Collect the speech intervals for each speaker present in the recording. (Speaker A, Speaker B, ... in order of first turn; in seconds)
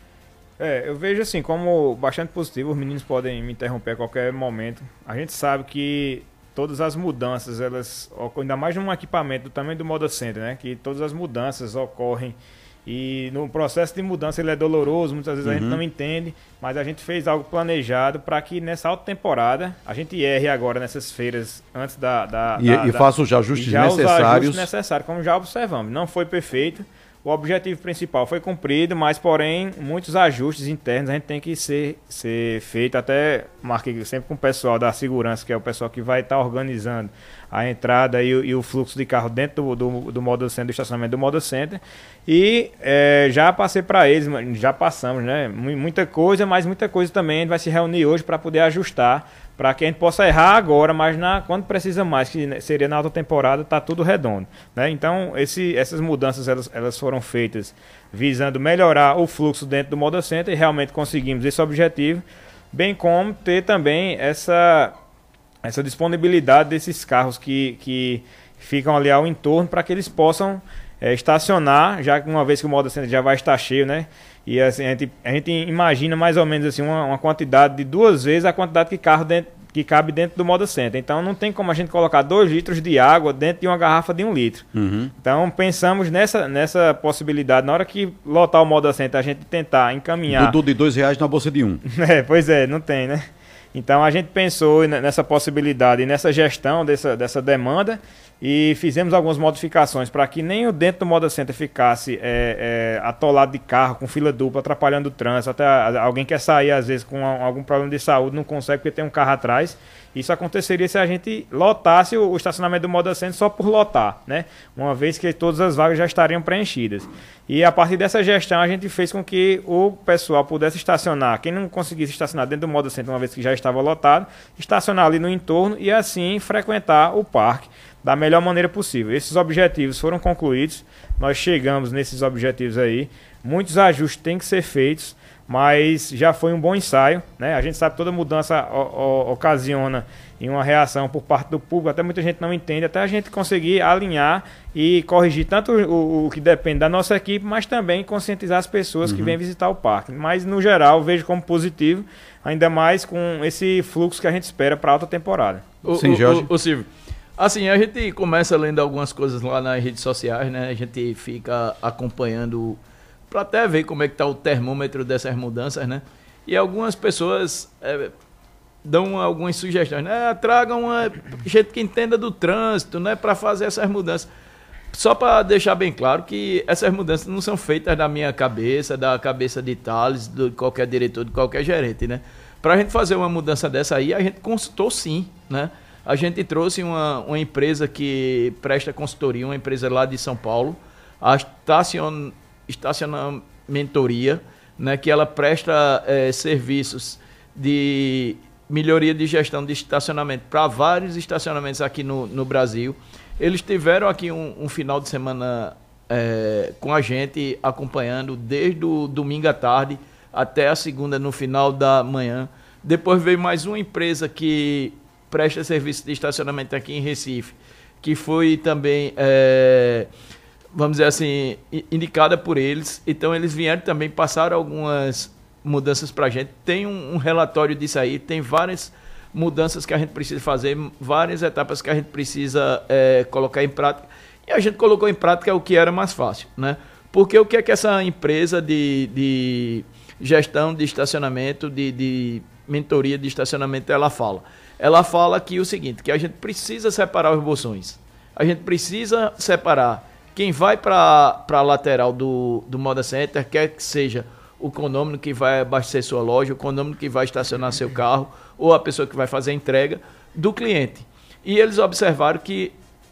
Speaker A: 0.6-23.1, 23.6-64.9, 65.6-84.7, 85.2-90.6, 91.9-155.7
Speaker B: 15.4-15.8, 22.6-24.7, 84.8-85.1, 90.3-91.8, 149.1-149.4, 155.9-156.5
Speaker C: 155.8-162.8, 163.3-168.1, 168.8-174.3, 174.9-220.1, 220.7-262.7